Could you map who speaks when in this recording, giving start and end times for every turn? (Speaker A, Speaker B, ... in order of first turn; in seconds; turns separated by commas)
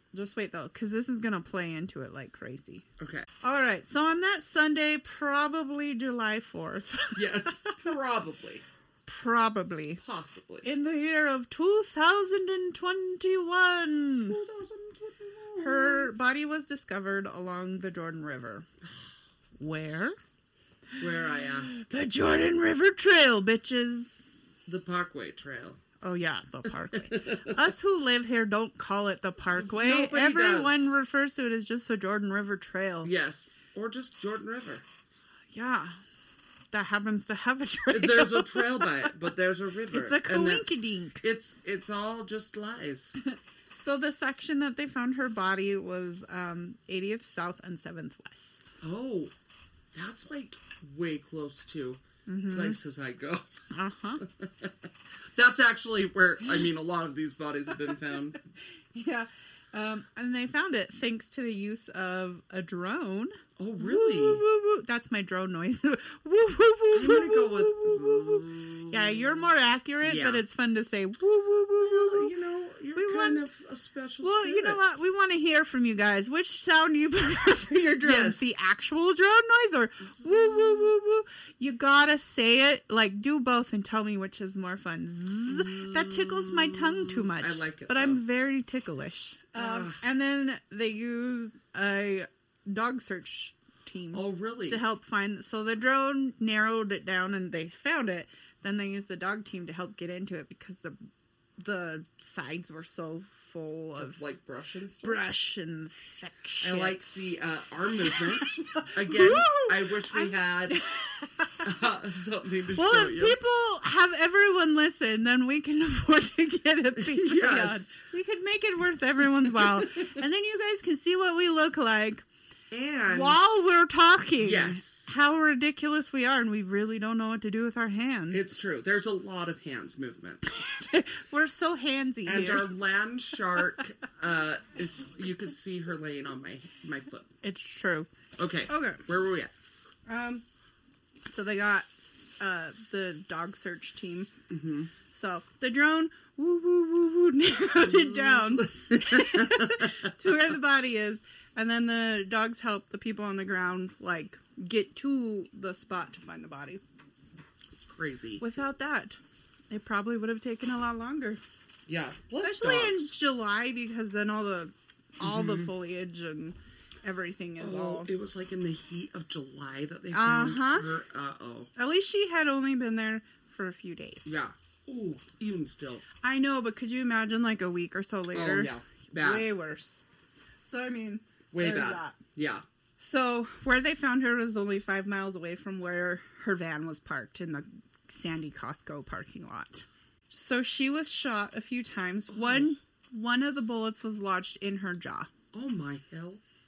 Speaker A: 0.1-2.9, Speaker B: 3.0-3.3, Speaker A: 3.4-7.9, Speaker B: 7.2-8.6, Speaker A: 9.1-10.0, Speaker B: 10.0-10.7, Speaker A: 10.6-14.4, Speaker B: 14.3-16.1, Speaker A: 15.6-18.7, Speaker A: 19.6-20.2, Speaker B: 21.0-21.9, Speaker A: 21.4-24.6, Speaker B: 24.7-25.8, Speaker A: 26.0-33.1, Speaker B: 26.9-27.6, Speaker B: 29.5-31.0, Speaker B: 33.0-34.8, Speaker A: 35.5-36.0, Speaker A: 36.7-39.1, Speaker B: 37.9-43.2, Speaker A: 39.9-41.2, Speaker A: 43.3-48.8, Speaker B: 48.8-49.3, Speaker B: 49.9-53.5, Speaker A: 52.3-52.8, Speaker A: 53.7-54.2, Speaker B: 54.2-58.4, Speaker A: 58.9-72.3, Speaker B: 63.6-64.4, Speaker B: 66.9-69.5, Speaker B: 70.0-70.4, Speaker B: 71.8-74.8, Speaker A: 72.9-73.5, Speaker A: 74.2-101.0, Speaker B: 78.0-78.5, Speaker B: 80.2-80.8, Speaker B: 85.5-88.2, Speaker B: 89.5-90.0, Speaker B: 94.1-94.8, Speaker A: 101.6-104.2, Speaker B: 104.0-105.2, Speaker A: 105.0-107.3, Speaker B: 106.6-110.8, Speaker A: 108.1-111.7, Speaker B: 111.6-113.4, Speaker A: 112.8-122.2, Speaker B: 117.0-117.9, Speaker B: 119.5-120.1, Speaker B: 122.7-123.5, Speaker A: 123.1-128.5, Speaker B: 124.4-125.1, Speaker B: 128.3-130.4, Speaker A: 130.5-132.7, Speaker B: 132.2-137.3, Speaker A: 137.4-138.1, Speaker B: 138.4-139.5, Speaker A: 138.7-139.0, Speaker A: 140.1-140.4, Speaker A: 141.3-141.9, Speaker A: 142.4-144.3, Speaker B: 144.5-144.9, Speaker A: 145.1-156.8, Speaker B: 147.8-150.1, Speaker B: 157.8-158.4, Speaker A: 158.4-159.2, Speaker A: 159.7-161.4, Speaker B: 161.9-163.1, Speaker A: 162.4-168.1, Speaker B: 165.2-165.7, Speaker B: 167.6-171.7, Speaker A: 170.1-170.9, Speaker A: 171.8-174.4, Speaker B: 174.2-176.0, Speaker A: 176.2-180.0, Speaker B: 178.3-179.5, Speaker A: 180.7-182.2, Speaker B: 181.5-182.6, Speaker A: 183.0-195.3, Speaker B: 192.3-192.7, Speaker B: 195.5-196.4